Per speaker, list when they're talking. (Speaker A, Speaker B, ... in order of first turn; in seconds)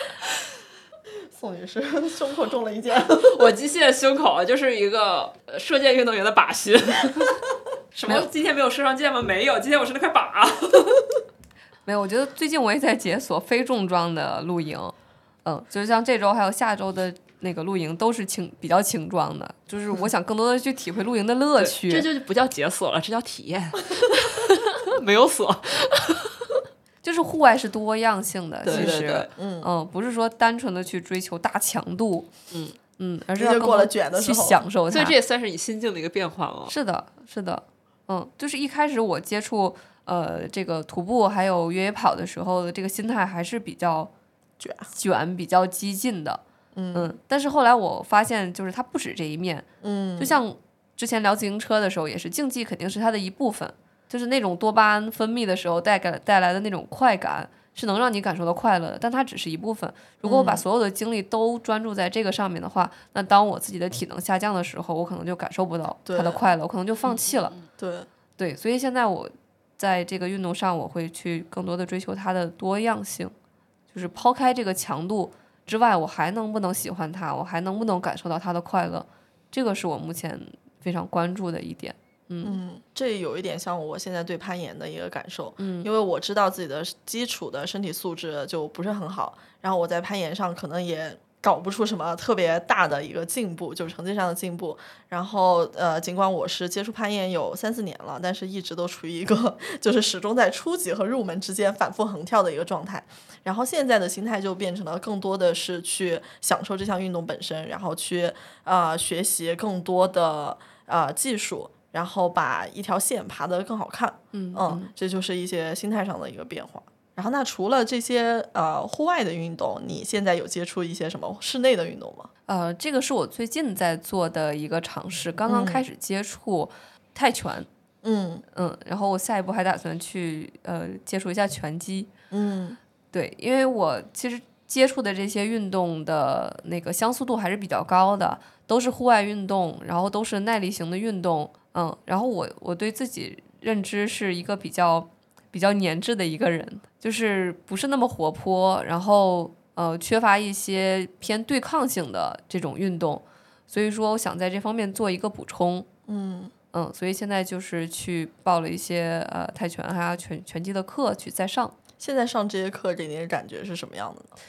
Speaker A: 1.3-3.5, 28.7-29.7, 33.4-34.6, 44.6-44.9, 46.7-47.1, 49.8-50.4, 60.2-60.6, 66.0-66.4, 67.8-68.1, 82.4-122.3, 125.5-125.8, 128.0-128.4, 132.3-132.8, 156.1-156.5, 162.0-164.3
Speaker B: 3.1-11.2, 21.6-26.6, 28.6-29.3, 32.5-32.8, 34.9-36.7, 67.1-67.7
Speaker C: 11.8-22.1, 27.0-32.3, 33.0-35.1, 36.7-44.1, 44.9-46.4, 46.9-49.6, 50.2-67.5, 68.4-73.3, 73.9-82.6, 85.6-85.9, 114.3-114.9, 122.5-127.7, 128.5-132.1, 133.1-155.9, 156.7-161.7